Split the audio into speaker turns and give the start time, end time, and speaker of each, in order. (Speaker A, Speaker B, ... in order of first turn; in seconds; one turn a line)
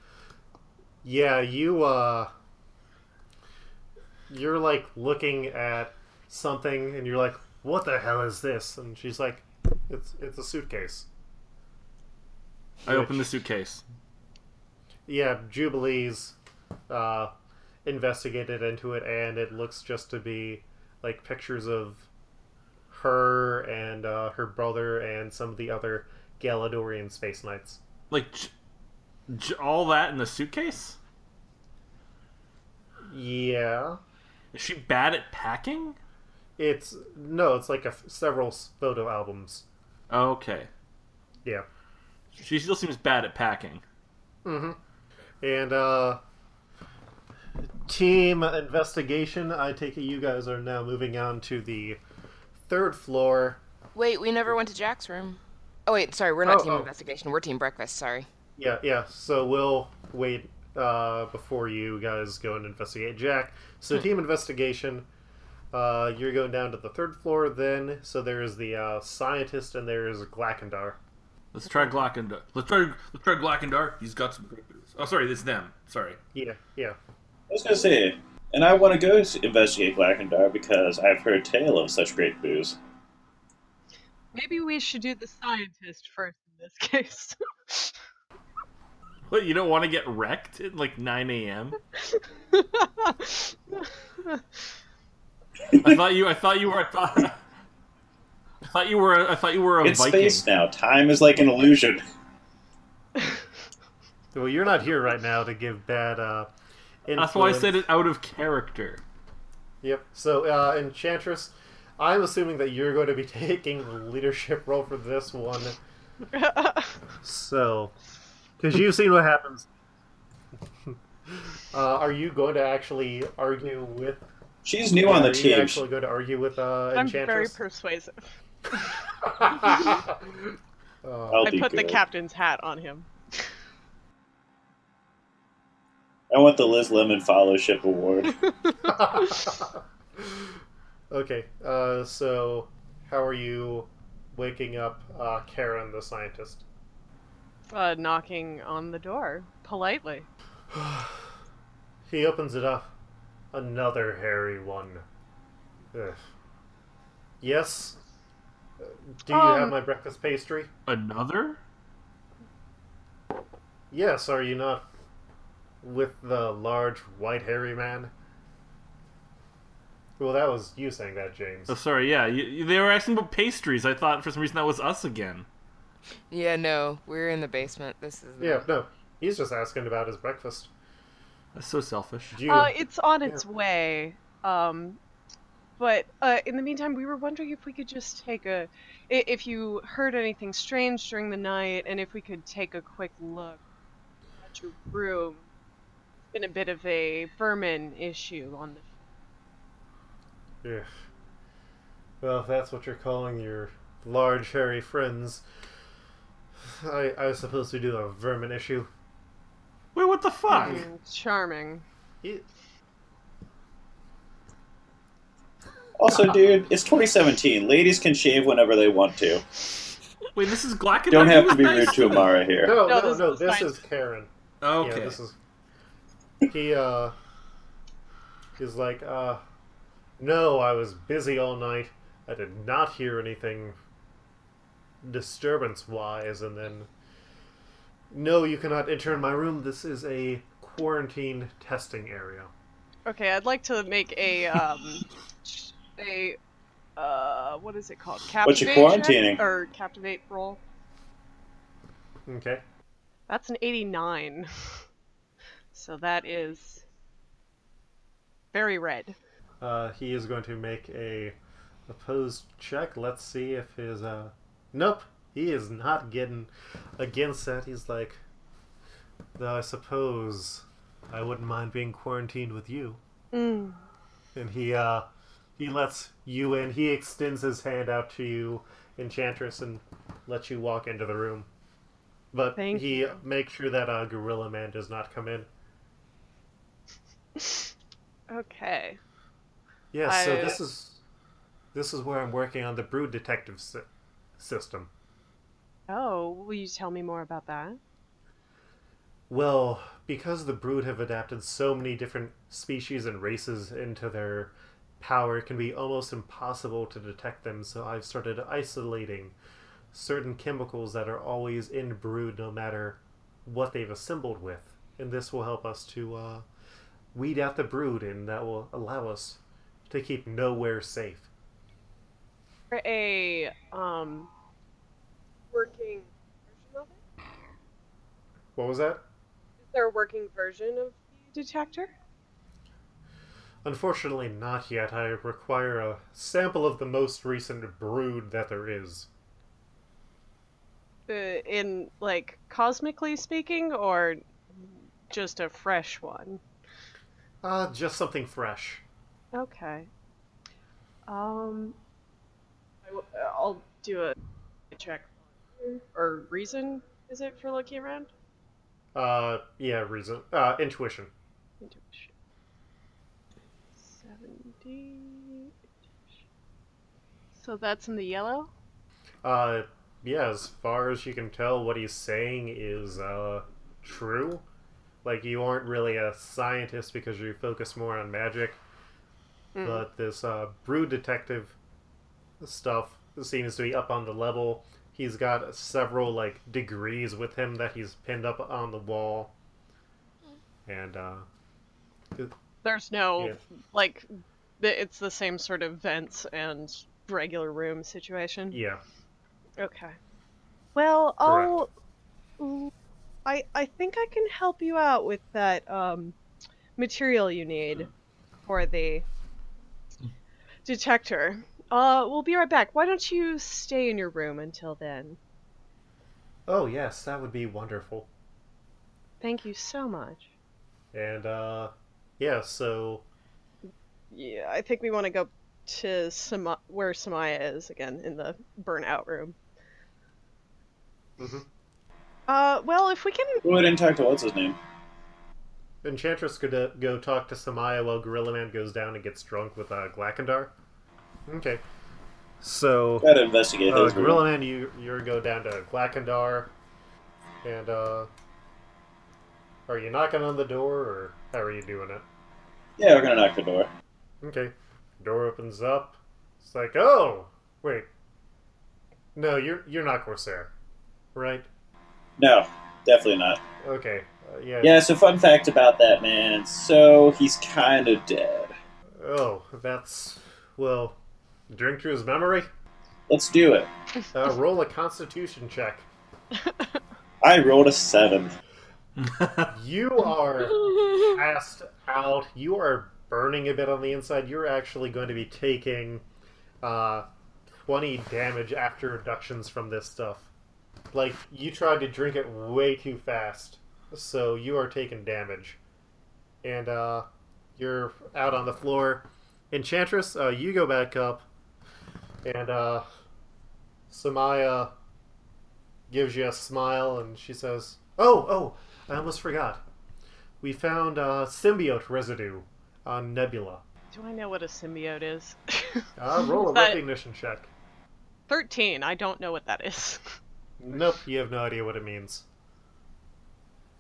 Speaker A: 1.0-2.3
Speaker A: 4.3-11.1
Speaker B: 12.8-13.8
Speaker A: 12.9-13.3
Speaker A: 15.1-16.4
Speaker A: 16.9-17.3
Speaker A: 17.9-22.1
Speaker A: 22.9-27.8
Speaker B: 28.1-28.5
Speaker B: 29.3-31.0
Speaker A: 33.1-34.0
Speaker B: 34.5-36.0
Speaker A: 36.6-39.7
Speaker B: 40.1-40.7
Speaker B: 42.4-43.8
Speaker A: 44.5-44.8
Speaker A: 45.4-46.2
Speaker A: 47.8-52.0
Speaker A: 52.7-53.6
Speaker C: 54.0-58.3
Speaker A: 56.5-56.9
Speaker A: 58.6-65.1
Speaker A: 65.7-71.0
Speaker B: 71.5-76.2
Speaker A: 76.3-77.0
Speaker D: 77.5-82.8
Speaker E: 84.3-88.0
Speaker B: 89.3-91.8
Speaker E: 92.1-94.4
Speaker B: 95.7-97.4
Speaker B: 98.7-100.4
Speaker D: 99.8-102.0
Speaker A: 104.3-106.5
Speaker A: 107.1-107.8
Speaker B: 107.2-109.0
Speaker A: 109.8-115.8
Speaker E: 116.3-117.0
Speaker A: 117.2-117.9
Speaker A: 118.6-119.7
Speaker A: 120.9-124.2
Speaker D: 124.6-125.8
Speaker A: 125.0-127.6
Speaker E: 127.0-128.2
Speaker A: 129.2-130.3
Speaker A: 131.0-131.6
Speaker D: 131.3-132.0
Speaker E: 131.4-133.1
Speaker D: 136.3-138.4
Speaker A: 138.8-140.5
Speaker A: 141.1-146.6
Speaker E: 147.7-150.3
Speaker A: 150.7-151.3
Speaker A: 152.1-152.9
Speaker A: 153.5-155.1
Speaker A: 155.9-156.2
Speaker A: 157.4-158.0
Speaker A: 158.8-160.7
Speaker E: 159.3-159.7
Speaker B: 160.9-161.6
Speaker A: 163.9-164.9
Speaker A: 165.8-168.1
Speaker A: 170.2-171.8
Speaker B: 171.7-175.5
Speaker C: 176.3-178.7
Speaker A: 178.4-180.7
Speaker B: 181.6-182.4
Speaker A: 182.3-183.4
Speaker E: 182.5-185.0
Speaker E: 185.8-193.6
Speaker E: 194.4-195.4
Speaker E: 196.3-198.9
Speaker A: 200.6-200.9
Speaker A: 202.2-205.4
Speaker A: 206.6-208.9
Speaker B: 209.9-210.8
Speaker A: 210.5-210.9
Speaker E: 210.5-211.8
Speaker D: 216.0-219.4
Speaker B: 220.3-222.3
Speaker D: 221.1-222.8
Speaker A: 222.6-225.4
Speaker E: 222.7-223.8
Speaker B: 224.6-225.2
Speaker A: 226.5-227.1
Speaker A: 228.6-229.4
Speaker A: 230.2-233.8
Speaker A: 235.0-236.9
Speaker A: 238.1-242.5
Speaker E: 243.1-246.4
Speaker E: 247.0-250.6
Speaker D: 248.4-249.4
Speaker A: 252.3-252.6
Speaker E: 253.3-254.8
Speaker E: 255.7-256.8
Speaker E: 258.5-259.2
Speaker A: 259.6-261.4
Speaker A: 261.9-268.2
Speaker A: 269.4-273.0
Speaker E: 273.3-273.8
Speaker A: 274.4-275.1
Speaker A: 275.6-281.5
Speaker A: 282.3-285.5
Speaker E: 282.6-283.1
Speaker E: 287.4-287.7
Speaker E: 288.3-289.0
Speaker A: 289.9-291.0
Speaker E: 290.1-290.6
Speaker A: 291.7-294.9
Speaker E: 295.9-297.8
Speaker A: 299.3-309.4
Speaker A: 309.9-316.4
Speaker A: 317.1-321.3
Speaker E: 322.7-324.3
Speaker E: 325.5-327.0
Speaker A: 328.6-329.0
Speaker E: 329.6-331.9
Speaker A: 333.6-339.1
Speaker E: 341.1-346.4
Speaker A: 347.4-348.8
Speaker E: 349.3-349.9
Speaker E: 351.1-351.8
Speaker E: 352.9-354.2
Speaker E: 354.7-358.1
Speaker A: 358.9-361.1
Speaker E: 361.6-362.1
Speaker E: 363.8-365.5
Speaker E: 367.4-368.5
Speaker A: 369.2-374.4
Speaker A: 375.0-378.6
Speaker E: 379.6-379.8
Speaker A: 379.6-381.6
Speaker A: 382.4-389.3
Speaker A: 390.7-391.3
Speaker E: 392.6-398.6
Speaker A: 398.5-398.8
Speaker E: 399.6-400.0
Speaker E: 400.8-401.7
Speaker A: 401.2-401.6
Speaker E: 402.4-402.7
Speaker E: 403.2-406.2
Speaker E: 406.8-407.9
Speaker E: 408.4-409.1
Speaker E: 410.6-415.2
Speaker A: 416.5-418.1
Speaker E: 419.2-420.3
Speaker A: 420.9-423.1
Speaker E: 424.1-429.4
Speaker A: 431.2-431.5
Speaker E: 432.3-433.4
Speaker D: 433.4-434.6
Speaker A: 435.8-440.5
Speaker A: 441.3-441.6
Speaker A: 442.4-443.1
Speaker D: 443.0-444.2
Speaker A: 443.7-446.5
Speaker A: 447.4-448.1
Speaker A: 449.7-452.0
Speaker D: 452.8-453.7
Speaker A: 454.2-457.9
Speaker A: 459.1-460.5
Speaker A: 461.1-461.5
Speaker D: 462.2-463.4
Speaker A: 463.6-464.8
Speaker D: 464.6-468.5
Speaker A: 469.0-471.0
Speaker A: 471.5-472.5
Speaker D: 473.1-473.7
Speaker A: 474.1-475.9
Speaker D: 477.2-478.4
Speaker B: 479.0-479.5
Speaker A: 479.5-486.0
Speaker A: 486.6-487.1
Speaker A: 487.7-490.3
Speaker A: 490.9-495.6
Speaker A: 496.4-497.1
Speaker A: 497.6-501.3
Speaker A: 502.2-502.9
Speaker A: 503.9-504.7
Speaker A: 505.9-509.6
Speaker A: 510.4-513.6
Speaker E: 513.9-516.8
Speaker A: 516.0-517.5
Speaker E: 518.3-520.1
Speaker A: 520.6-522.2